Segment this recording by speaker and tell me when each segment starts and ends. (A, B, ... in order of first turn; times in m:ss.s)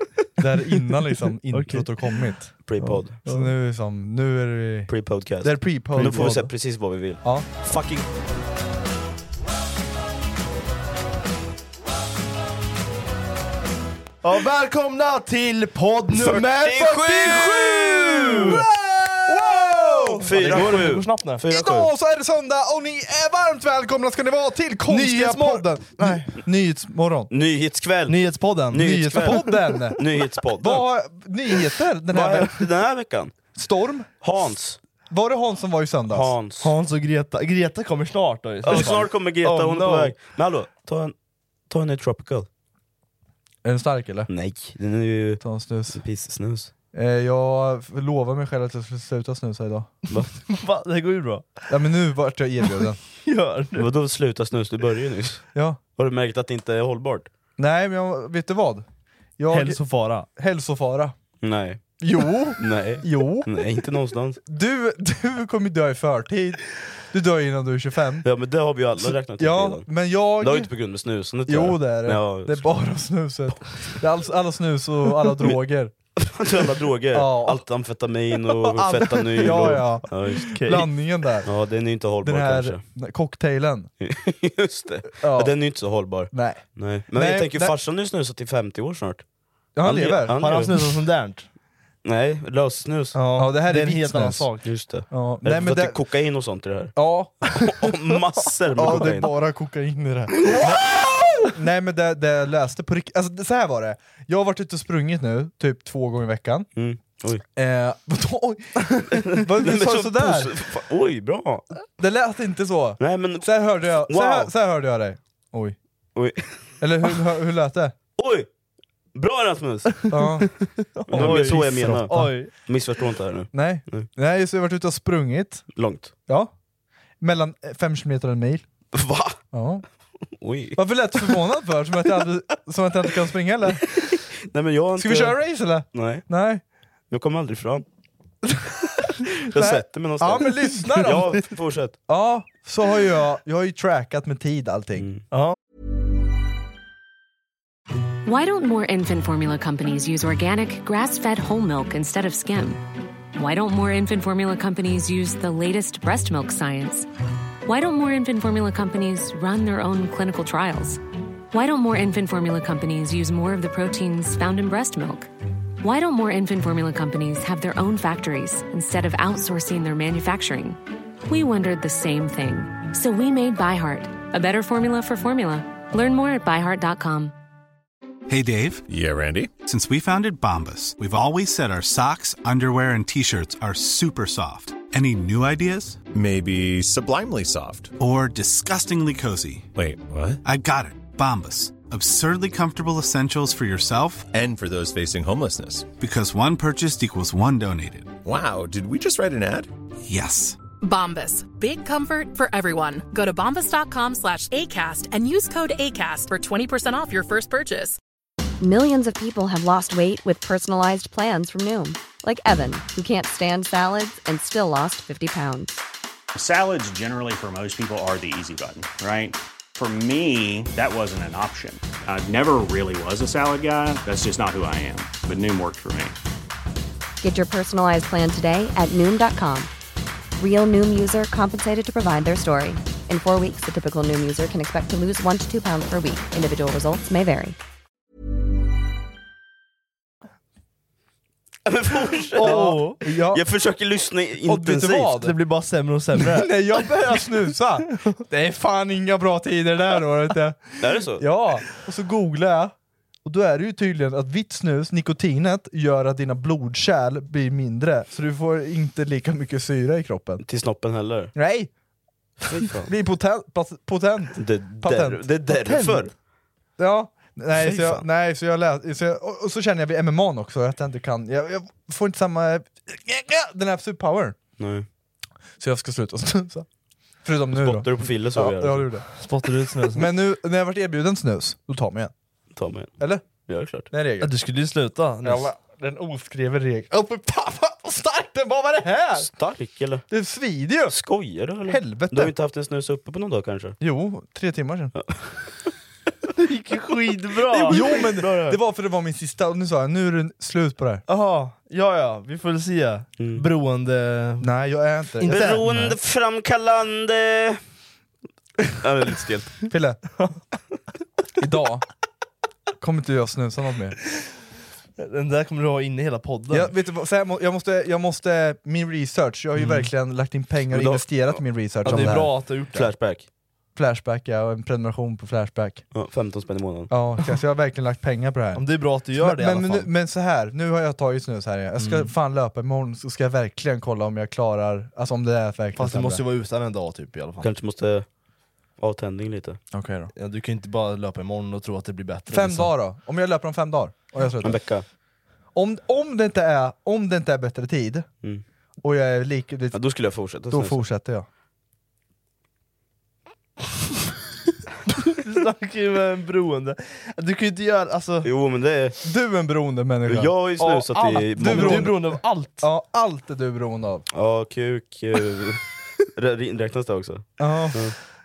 0:00.4-0:02.4 A
0:01.5-0:03.5 B
0:02.6-0:03.2 C
0:03.2-0:06.5 A
0:04.9-0:08.0 C
0:06.0-0:06.5 B
0:07.2-0:07.5 A
0:14.2-0:18.6 B
0:16.1-0:18.6 C
0:18.4-0:20.8 A
0:19.4-0:21.9 C
0:19.5-0:21.4 B
0:21.5-0:27.3 A
0:24.9-0:26.3 B
0:27.3-0:28.2 C
0:28.1-0:29.6 B
0:28.7-0:30.8 C
0:28.8-0:32.6 A
0:32.1-0:33.3 C
0:33.5-0:34.1 A
0:34.2-0:34.8 C
0:35.1-0:36.3 A
0:36.1-0:36.7 C
0:36.6-0:40.1 B
0:38.6-0:41.1 C
0:41.7-0:42.5 C
0:43.6-0:44.3 A
0:44.3-0:46.7 C
0:45.4-0:46.0 A
0:46.9-0:49.9 A
0:50.5-0:51.6 B
0:51.7-0:53.0 A
0:53.2-0:53.9 B
0:53.7-0:57.3 C
0:55.5-0:55.8 A
0:57.6-0:58.8 A
0:59.4-1:01.1 A
0:59.5-1:00.3 B
1:01.4-1:02.0 C
1:02.0-1:03.5 A
1:02.6-1:04.4 C
1:04.5-1:08.3 A
1:08.2-1:09.9 C
1:09.0-1:10.7 A
1:10.4-1:12.8 C
1:11.4-1:15.9 A
1:16.2-1:20.5 C
1:17.1-1:17.6 A
1:18.6-1:21.5 A
1:19.4-1:19.8 B
1:20.3-1:20.9 B
1:21.4-1:22.8 C
1:22.2-1:23.9 A
1:24.0-1:29.2 C
1:25.2-1:25.5 A
1:26.3-1:27.7 A
1:29.8-1:30.7 A
1:29.8-1:31.0 C
1:30.3-1:31.5 B
1:32.0-1:33.2 C
1:33.1-1:34.7 B
1:33.3-1:34.5 A
1:34.6-1:36.9 C
1:35.1-1:36.0 A
1:37.0-1:37.5 A
1:37.5-1:39.3 C
1:38.7-1:46.7 A
1:46.8-1:47.4 C
1:47.6-1:50.5 A
1:49.2-1:51.6 C
1:52.0-1:55.8 A
1:53.0-1:54.5 C
1:56.2-1:56.7 C
1:56.8-1:57.9 A
1:58.2-1:58.5 C
1:59.1-2:00.2 C
2:00.1-2:00.5 A
2:00.9-2:02.5 B
2:01.1-2:04.1 C
2:01.1-2:02.3 A
2:03.5-2:05.6 A
2:05.7-2:06.1 C
2:07.2-2:08.6 A
2:08.9-2:09.4 C
2:09.5-2:09.8 A
2:10.4-2:10.8 C
2:10.8-2:13.9 A
2:13.9-2:15.4 C
2:15.0-2:16.6 A
2:15.9-2:16.2 C
2:17.1-2:17.8 C
2:18.5-2:18.8 A
2:19.5-2:22.0 C
2:19.5-2:21.5 A
2:20.7-2:21.4 B
2:22.1-2:25.1 A
2:25.0-2:25.2 C
2:25.3-2:25.6 B
2:28.2-2:32.8 D
2:33.3-2:37.1 D
2:37.6-2:41.0 D
2:41.5-2:45.3 D
2:45.8-2:57.3 D
2:58.3-2:58.8 E
2:58.9-2:59.6 F
2:59.6-3:06.0 E
3:06.1-3:07.9 F
3:08.0-3:09.7 E
3:09.7-3:10.4 F
3:10.4-3:14.3 E
3:14.3-3:15.9 F
3:16.0-3:18.2 E
3:18.2-3:19.7 F
3:20.1-3:20.6 E
3:20.8-3:28.0 G
3:28.6-3:35.8 H
3:36.3-3:46.2 I
3:47.2-3:49.7 H
3:50.4-3:57.6 H
4:01.6-4:05.1 C
4:02.4-4:03.0 B
4:02.4-4:03.4 A
4:04.4-4:05.4 A
4:05.2-4:06.5 B
4:06.2-4:12.7 A
4:10.8-4:11.2 C
4:13.2-4:20.4 A
4:20.4-4:21.3 C
4:21.3-4:21.7 A
4:22.4-4:22.9 C
4:22.8-4:26.1 A
4:24.4-4:26.1 C
4:26.8-4:34.4 A
4:27.6-4:28.0 C
4:34.6-4:34.8 C
4:35.6-4:36.6 A
4:37.2-4:39.1 A
4:37.5-4:38.9 C
4:39.2-4:40.1 B
4:39.9-4:42.1 A
4:42.5-4:42.9 C
4:43.0-4:43.2 A
4:43.5-4:43.9 C
4:43.9-4:44.3 A
4:44.2-4:45.5 B
4:45.2-4:49.3 A
4:49.2-4:50.0 C
4:50.1-4:50.9 A
4:50.9-4:53.8 C
4:51.7-4:52.3 A
4:53.8-4:54.9 A
4:56.4-4:58.4 B
4:57.6-5:01.0 A
4:57.6-4:58.6 C
5:01.1-5:04.5 B
5:03.2-5:03.4 C
5:04.4-5:05.6 A
5:05.2-5:05.9 B
5:05.3-5:07.6 C
5:08.8-5:09.7 C
5:09.7-5:10.0 A
5:11.4-5:11.8 A
5:12.8-5:14.0 A
5:15.0-5:16.7 B
5:16.5-5:22.5 A
5:19.6-5:19.8 B
5:20.7-5:23.2 C
5:21.8-5:22.8 B
5:23.7-5:25.9 A
5:25.9-5:26.9 C
5:26.9-5:36.2 A
5:28.5-5:29.9 B
5:31.8-5:32.1 B
5:35.7-5:37.5 B
5:37.4-5:38.0 C
5:38.8-5:39.6 C
5:39.7-5:40.1 A
5:40.1-5:42.7 B
5:42.3-5:44.6 A
5:44.4-5:44.8 C
5:45.5-5:48.1 A
5:48.8-5:49.8 A
5:49.7-5:50.8 C
5:50.3-5:51.2 A
5:55.0-5:58.3 B
5:58.2-5:59.0 C
5:59.0-6:00.3 A
6:00.1-6:02.0 C
6:00.6-6:02.7 B
6:01.3-6:04.0 A
6:04.1-6:08.0 C
6:07.4-6:07.9 A